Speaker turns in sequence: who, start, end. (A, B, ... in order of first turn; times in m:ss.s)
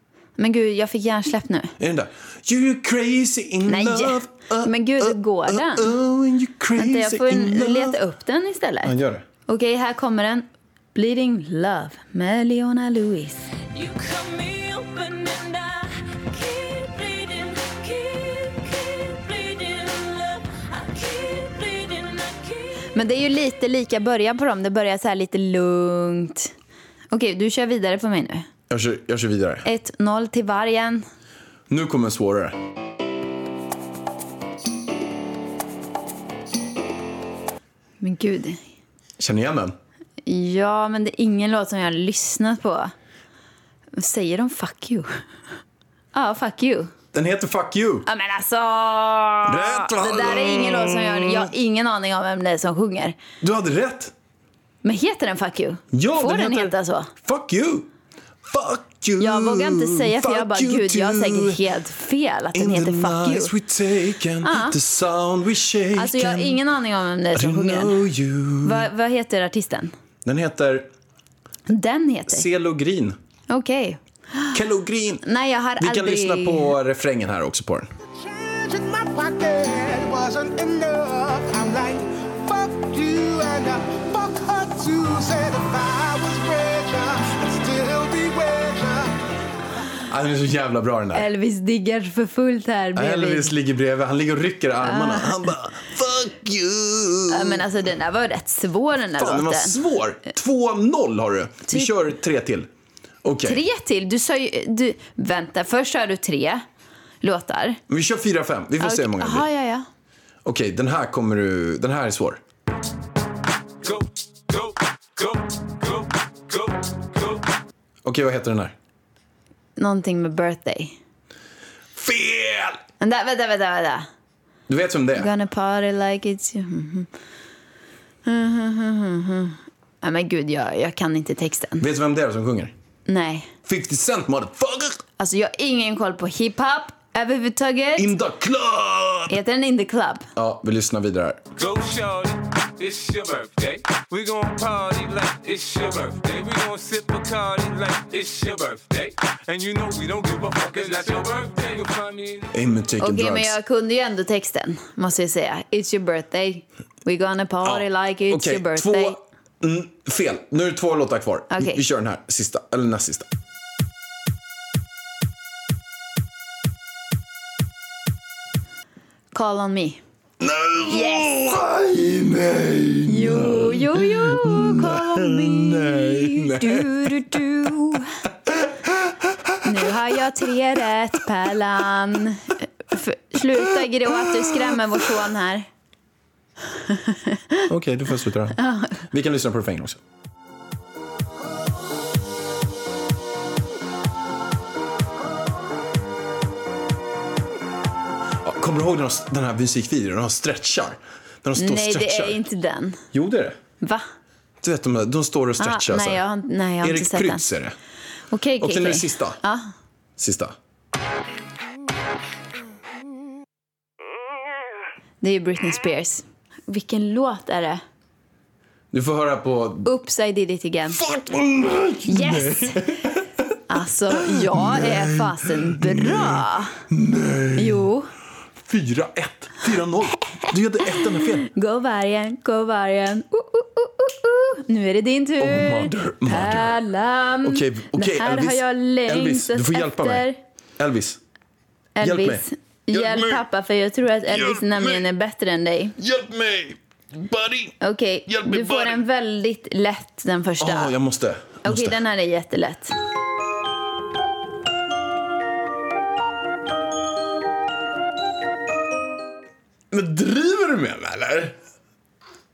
0:00.4-0:01.7 A
0:01.8-0:08.0 B
0:03.7-0:05.9 A
0:06.8-0:08.9 A
0:08.8-0:09.2 B
0:09.5-0:13.5 A
0:13.7-0:22.9 C
0:22.9-0:26.5 A
0:27.1-0:28.5 A
0:28.7-0:29.7 B
0:29.6-0:31.0 A
0:31.7-0:32.6 B
0:38.0-0:38.6 A
0:39.2-0:39.8 B
0:40.2-0:42.9 A
0:44.0-0:45.1 A
0:46.1-0:46.9 A
0:47.1-0:48.1 B
0:48.1-0:53.2 A
0:49.5-0:51.5 B
0:53.4-0:54.1 B
0:54.8-0:57.1 A
0:55.9-0:57.9 B
0:58.5-1:01.6 B
0:59.2-1:03.5 A
1:02.5-1:06.6 B
1:04.4-1:04.8 A
1:06.0-1:08.0 A
1:07.3-1:08.9 B
1:08.6-1:09.9 A
1:10.2-1:10.9 B
1:11.7-1:12.4 A
1:12.3-1:13.2 B
1:13.5-1:14.6 A
1:14.5-1:15.2 B
1:15.2-1:16.7 A
1:15.8-1:17.9 B
1:18.2-1:29.2 D
1:30.1-1:31.3 B
1:31.1-1:33.5 A
1:33.0-1:37.7 B
1:34.8-1:35.4 A
1:37.3-1:39.8 A
1:39.2-1:42.7 B
1:43.2-1:43.6 B
1:43.4-1:46.6 A
1:47.2-1:47.8 A
1:47.9-1:49.5 B
1:48.8-1:49.9 A
1:50.4-1:52.4 B
1:53.8-1:57.4 E
1:58.0-1:58.8 B
1:59.8-2:01.0 A
2:01.9-2:02.8 B
2:03.0-2:04.1 A
2:04.7-2:05.3 B
2:05.1-2:07.1 A
2:08.2-2:11.9 A
2:11.8-2:12.7 B
2:13.1-2:13.5 A
2:13.6-2:15.0 B
2:15.2-2:18.1 A
2:18.0-2:19.4 B
2:19.3-2:20.3 A
2:20.4-2:21.4 B
2:21.6-2:32.5 E
2:32.5-2:33.6 B
2:33.0-2:39.2 A
2:37.6-2:43.3 B
2:41.5-2:41.8 A
2:49.3-2:50.0 A
2:50.4-3:00.0 B
2:50.9-2:51.3 A
2:53.1-2:58.1 A
2:59.6-3:05.7 A
3:03.4-3:05.1 B
3:06.8-3:07.7 A
3:07.7-3:10.0 B
3:08.6-3:09.0 A
3:18.4-3:22.4 B
3:21.6-3:23.0 A
3:23.1-3:23.6 B
3:24.6-3:26.2 B
3:25.6-3:27.4 A
3:26.8-3:27.8 B
3:28.3-3:29.7 A
3:28.6-3:29.4 B
3:30.2-3:30.6 B
3:35.2-3:37.8 A
3:38.9-3:39.9 B
3:39.8-3:41.0 A
3:40.9-3:43.6 B
3:42.1-3:42.9 A
3:43.7-3:46.8 A
3:44.1-3:47.9 B
3:47.6-3:48.1 A
3:48.6-3:51.5 B
3:51.2-4:00.4 A
3:55.4-3:56.8 B
3:57.4-4:01.2 B
4:02.0-4:06.0 A
4:02.0-4:03.4 B
4:04.3-4:05.0 B
4:06.0-4:07.7 B
4:07.8-4:10.9 A
4:08.3-4:09.0 B
4:10.6-4:12.0 B
4:11.6-4:12.9 A
4:19.9-4:21.6 B